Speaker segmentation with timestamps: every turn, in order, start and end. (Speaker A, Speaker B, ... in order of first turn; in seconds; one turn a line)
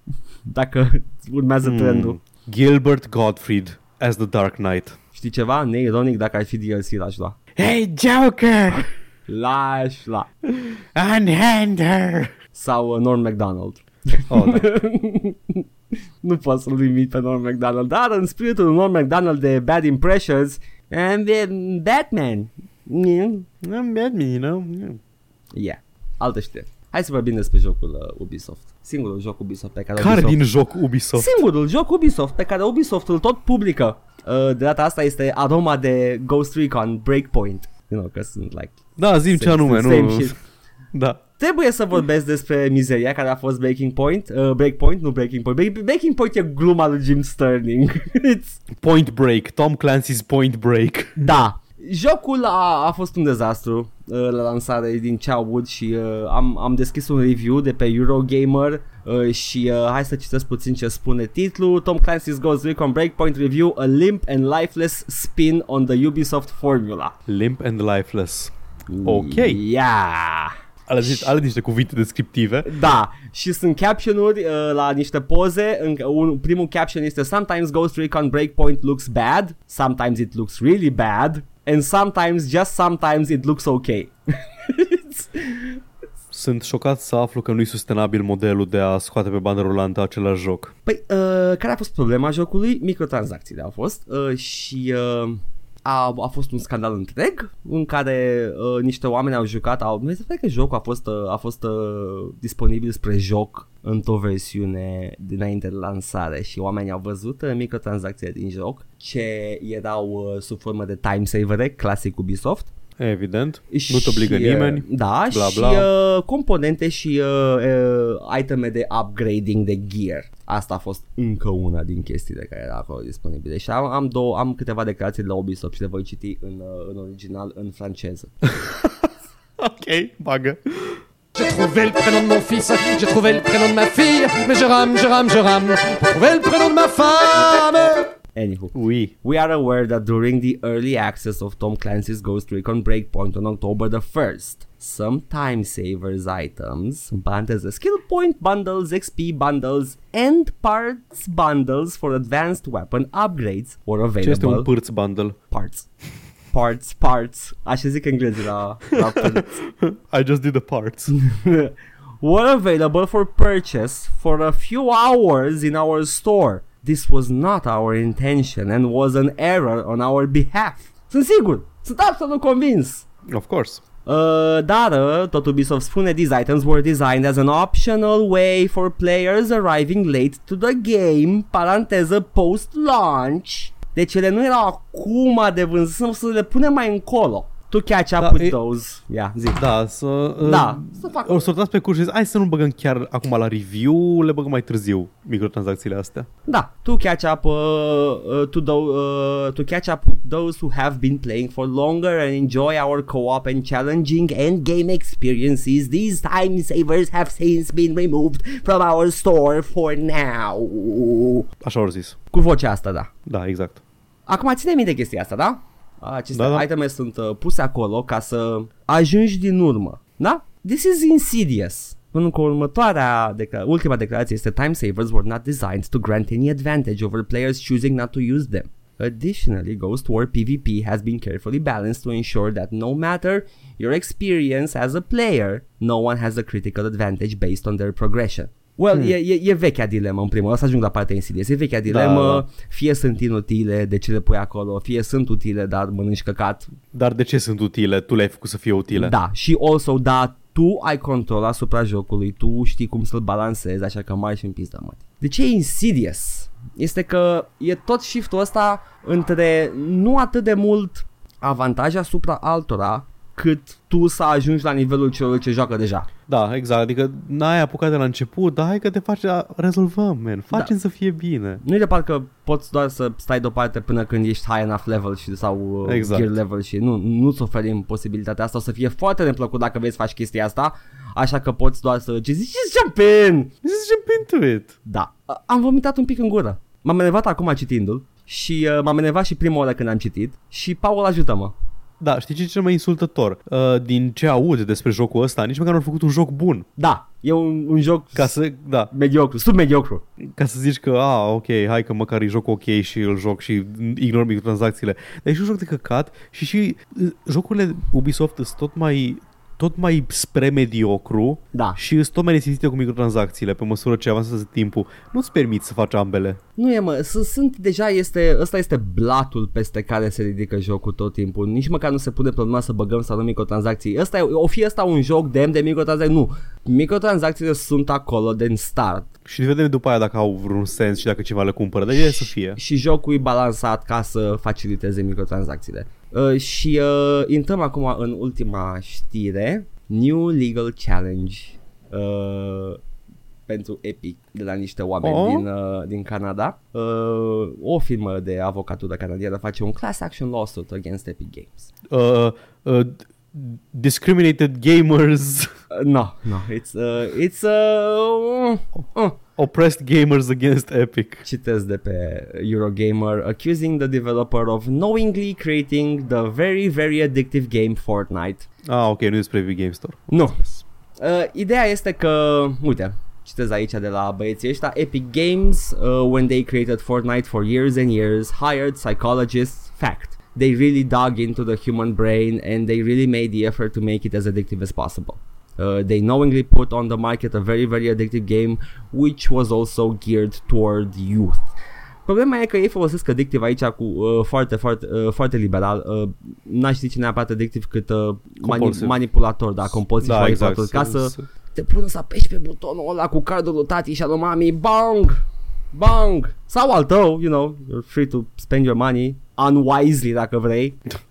Speaker A: 0.5-2.2
Speaker B: 1.6-5.0
Speaker A: 5.1-7.4
Speaker B: 7.5-8.9
Speaker A: 9.3-10.3
Speaker B: 10.5-12.3
Speaker A: 12.5-15.6
Speaker B: 14.3-14.7
Speaker A: 16.2-23.5
Speaker B: 23.6-25.0
Speaker A: 25.6-30.4
Speaker B: 29.9-31.3
Speaker A: 31.1-40.4
Speaker B: 39.0-40.3
Speaker B: 40.9-41.2
Speaker A: 41.4-48.6
Speaker B: 48.7-51.2
Speaker A: 51.2-67.1
Speaker B: 67.3-68.5
Speaker A: 68.9-71.3
Speaker B: 69.0-69.6
Speaker B: 70.9-72.7
Speaker A: 72.6-85.8
Speaker B: 86.3-90.7
Speaker A: 90.8-112.7
Speaker B: 113.0-115.9
Speaker A: 113.7-128.3
Speaker B: 128.5-131.0
Speaker C: 131.3-138.1
Speaker A: 138.3-154.7
Speaker B: 138.7-139.1
Speaker B: 154.2-155.3
Speaker A: 155.5-155.9
Speaker A: 156.5-159.6
Speaker B: 159.1-161.1
Speaker A: 161.1-173.1
Speaker B: 173.3-173.8
Speaker A: 174.1-189.6
Speaker B: 188.2-188.6
Speaker B: 189.6-196.3
Speaker A: 190.4-191.5
Speaker A: 196.5-211.5
Speaker B: 211.6-212.2
Speaker A: 212.3-213.1
Speaker B: 213.3-213.8
Speaker A: 214.3-246.7
Speaker B: 216.3-216.7
Speaker B: 241.9-242.4
Speaker B: 246.9-249.1
Speaker A: 248.9-266.1
Speaker B: 266.3-271.6
Speaker A: 271.6-283.5
Speaker B: 275.8-276.3
Speaker B: 283.6-284.7
Speaker A: 284.8-291.6
Speaker B: 292.0-296.7
Speaker A: 296.8-298.4
Speaker B: 298.1-298.9
Speaker A: 298.9-300.0
Speaker B: 300.2-316.4
Speaker A: 311.5-311.8
Speaker A: 316.6-329.1
Speaker B: 329.2-332.6
Speaker A: 331.9-342.8
Speaker A: 343.5-351.7
Speaker B: 345.0-345.4
Speaker B: 351.9-355.5
Speaker A: 355.7-359.2
Speaker B: 359.4-361.2
Speaker A: 361.2-368.5
Speaker B: 368.7-370.6
Speaker A: 370.1-370.4
Speaker A: 371.0-391.4
Speaker A: 392.1-405.2
Speaker B: 398.4-399.0
Speaker B: 400.0-401.3
Speaker A: 405.7-410.8